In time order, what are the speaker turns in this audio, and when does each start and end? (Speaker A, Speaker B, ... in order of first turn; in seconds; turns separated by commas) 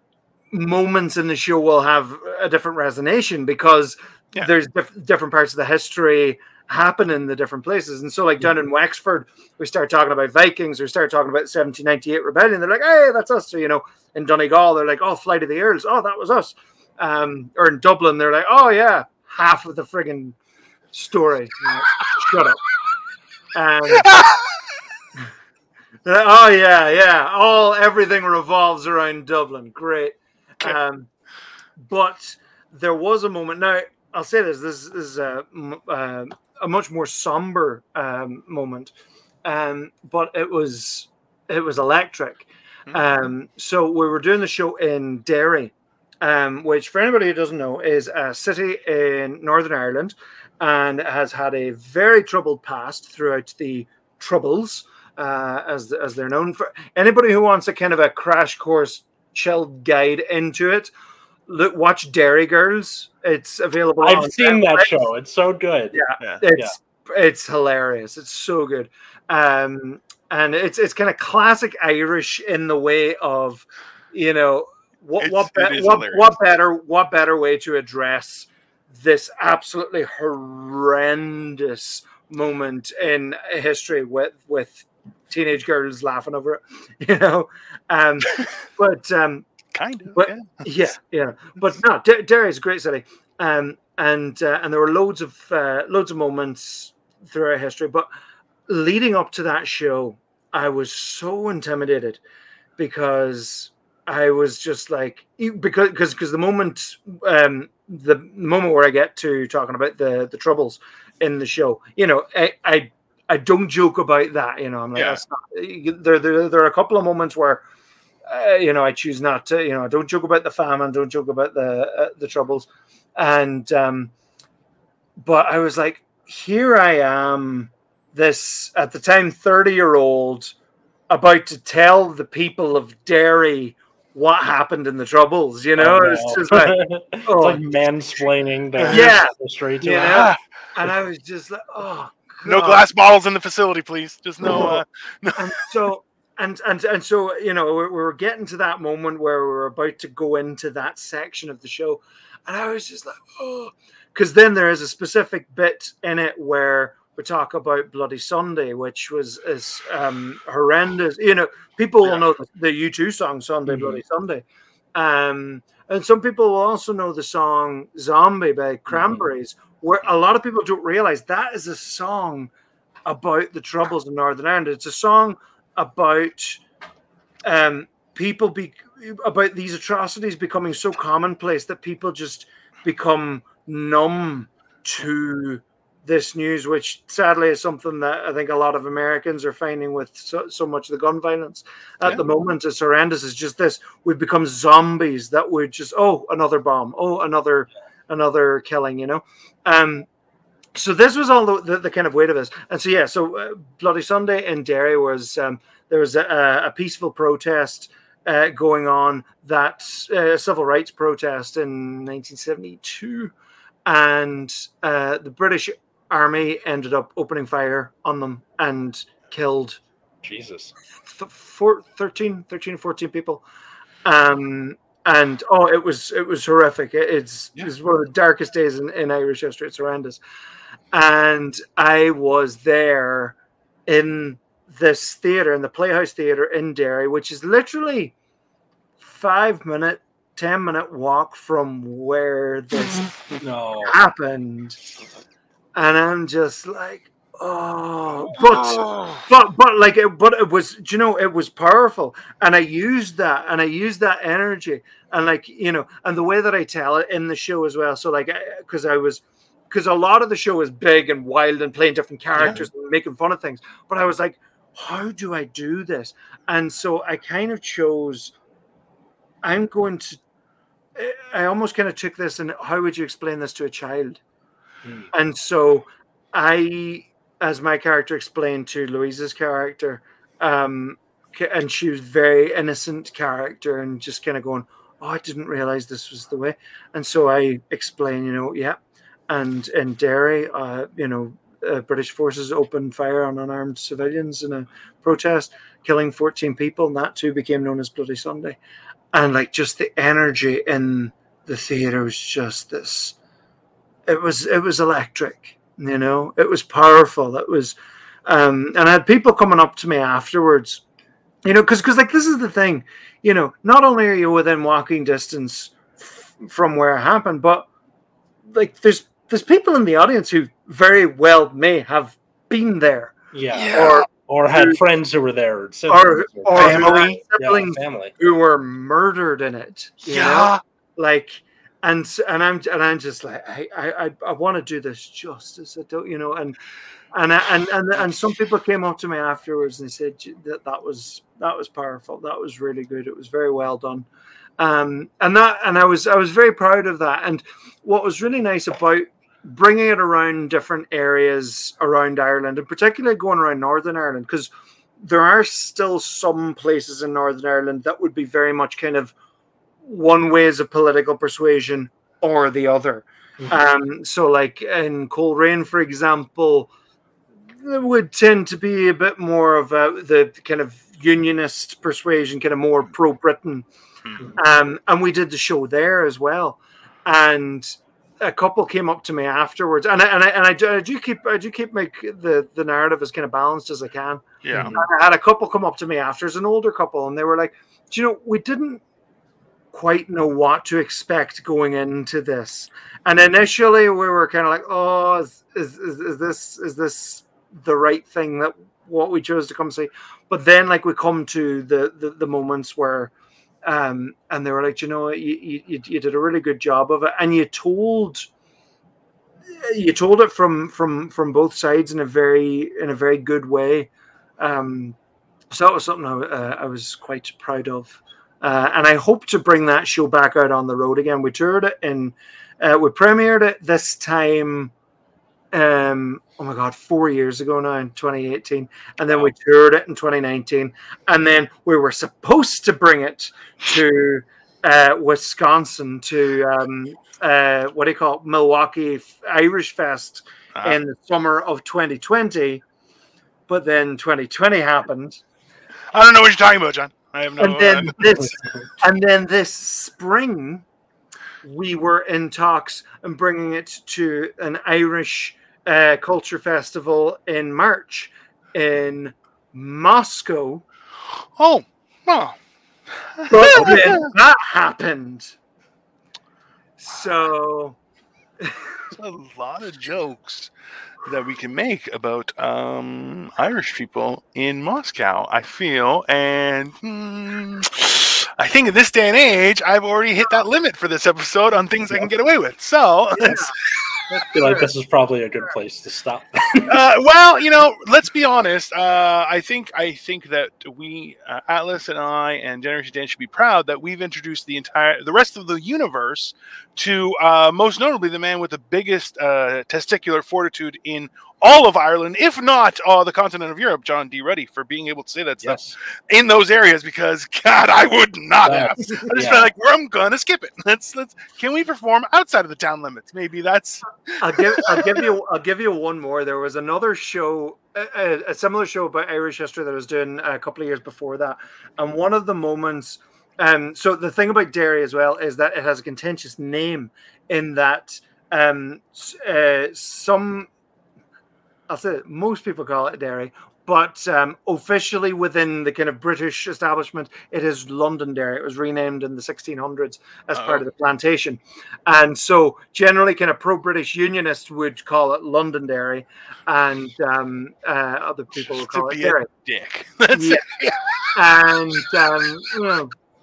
Speaker A: 0.5-20.4, Speaker A: 20.9-22.6, Speaker A: 23.5-24.1, Speaker B: 23.9-24.4, Speaker A: 26.0-31.1, Speaker A: 31.8-38.9, Speaker A: 39.4-60.9, Speaker A: 61.5-65.0, Speaker C: 64.0-66.7, Speaker A: 65.9-89.4, Speaker B: 75.2-76.3, Speaker B: 89.7-90.8, Speaker A: 90.1-98.1, Speaker A: 98.7-102.2, Speaker A: 102.8-117.6, Speaker B: 114.9-115.2, Speaker A: 118.2-124.1, Speaker A: 125.2-130.5, Speaker A: 131.1-137.6, Speaker C: 135.8-140.2, Speaker B: 138.8-139.1, Speaker A: 138.8-142.9, Speaker B: 139.9-140.4, Speaker B: 142.4-145.6, Speaker A: 144.4-144.8, Speaker A: 145.4-172.5, Speaker C: 163.7-164.0, Speaker A: 173.1-176.6, Speaker A: 177.4-200.1, Speaker A: 200.7-213.3, Speaker A: 213.8-219.8, Speaker C: 220.2-220.7, Speaker A: 221.0-223.4, Speaker A: 224.0-230.2, Speaker A: 230.9-238.1, Speaker A: 239.0-243.1, Speaker C: 243.4-244.0, Speaker A: 243.8-244.8, Speaker A: 245.8-268.3, Speaker B: 248.8-249.2, Speaker A: 269.4-270.2, Speaker A: 270.9-274.2, Speaker C: 274.8-275.1, Speaker A: 275.1-298.6, Speaker A: 299.1-303.1, Speaker A: 304.1-310.8, Speaker A: 311.4-317.7, Speaker A: 318.5-323.2, Speaker C: 323.3-328.2, Speaker B: 323.5-324.0, Speaker A: 323.7-324.8, Speaker A: 325.9-336.6, Speaker B: 326.6-327.2, Speaker B: 330.0-330.6, Speaker A: 337.1-344.1, Speaker A: 344.6-359.1, Speaker A: 359.8-366.7, Speaker A: 367.6-373.6, Speaker B: 374.0-374.3, Speaker A: 374.3-388.8, Speaker B: 384.4-384.8, Speaker C: 384.5-384.8, Speaker A: 389.7-403.1, Speaker A: 403.6-408.3, Speaker A: 409.5-414.9, Speaker A: 415.5-424.7, Speaker A: 425.5-442.6, Speaker A: 443.5-445.2, Speaker B: 445.9-448.1, Speaker A: 447.4-450.6, Speaker A: 451.4-460.6, Speaker B: 461.4-462.4, Speaker B: 463.1-464.1, Speaker A: 463.3-465.3, Speaker A: 466.8-467.8, Speaker B: 468.9-470.5, Speaker B: 471.0-483.8, Speaker A: 483.1-483.5, Speaker A: 484.1-484.7, Speaker C: 484.3-486.7, Speaker B: 486.6-515.0, Speaker C: 505.4-505.7, Speaker C: 508.5-509.5, Speaker A: 508.8-509.2, Speaker A: 514.2-530.5, Speaker A: 531.7-549.3, Speaker B: 540.3-540.6, Speaker B: 548.5-550.8, Speaker A: 550.1-550.4, Speaker A: 551.1-552.9